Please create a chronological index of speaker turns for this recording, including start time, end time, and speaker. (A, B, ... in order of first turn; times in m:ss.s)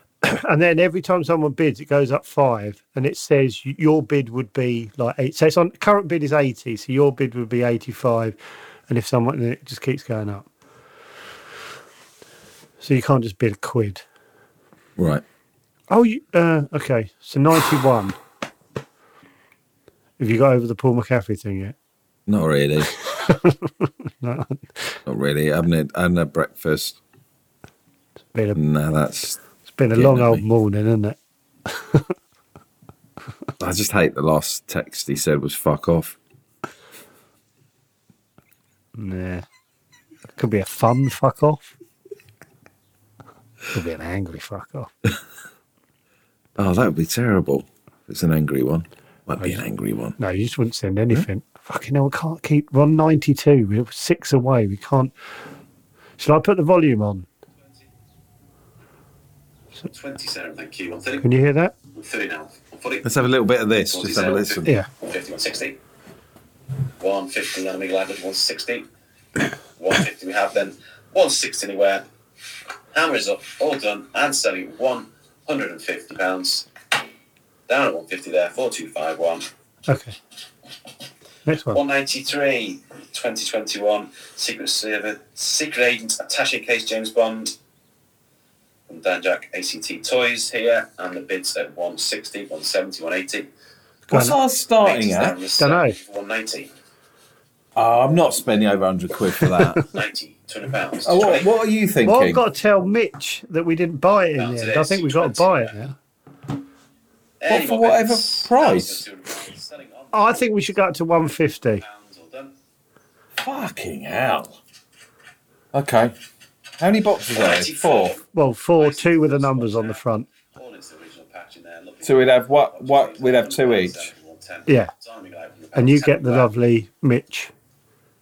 0:00.2-0:08.4 A
0:08.9-0:10.5 A
0:12.8-0:14.0 A
0:15.0-0:15.2 B
0:15.9-0:18.2 A
0:20.2-0:21.8 A
0:22.3-0:22.9 B
0:23.1-0:25.0 A
0:25.1-0:27.0 B
0:28.3-0:28.6 A
0:28.6-0:29.4 B
0:29.7-0:32.1 A
0:30.0-0:30.4 B
0:33.6-0:36.2 B
0:39.0-0:39.5 A
0:40.4-0:41.7 A
0:43.7-0:44.9 A
0:46.6-0:50.2 B
0:50.2-0:55.1 A
0:56.2-0:57.3 A
0:59.9-1:01.3 C
1:01.2-1:01.7 A
1:01.9-1:03.3 C
1:03.0-1:04.7 B
1:03.8-1:05.8 C
1:07.0-1:08.9 C
1:09.8-1:12.0 C
1:12.9-1:16.7 C
1:17.7-1:19.5 C
1:19.9-1:20.2 A
1:21.5-1:21.8 A
1:21.7-1:27.6 C
1:28.9-1:33.5 C
1:34.1-1:34.4 A
1:34.1-1:35.4 B
1:34.8-1:36.7 C
1:35.6-1:36.0 A
1:37.8-1:39.8 B
1:39.5-1:39.8 A
1:39.8-1:41.5 C
1:41.0-1:42.4 B
1:42.0-1:46.0 A
1:44.4-1:45.8 C
1:47.4-1:50.8 C
1:47.5-1:49.0 B
1:50.1-1:51.8 A
1:51.6-1:52.5 C
1:53.4-1:54.6 B
1:55.7-1:56.1 B
1:56.8-1:58.2 B
1:57.3-1:58.2 C
1:58.3-2:00.3 A
1:58.8-2:06.5 C
2:02.0-2:04.1 B
2:05.8-2:07.5 A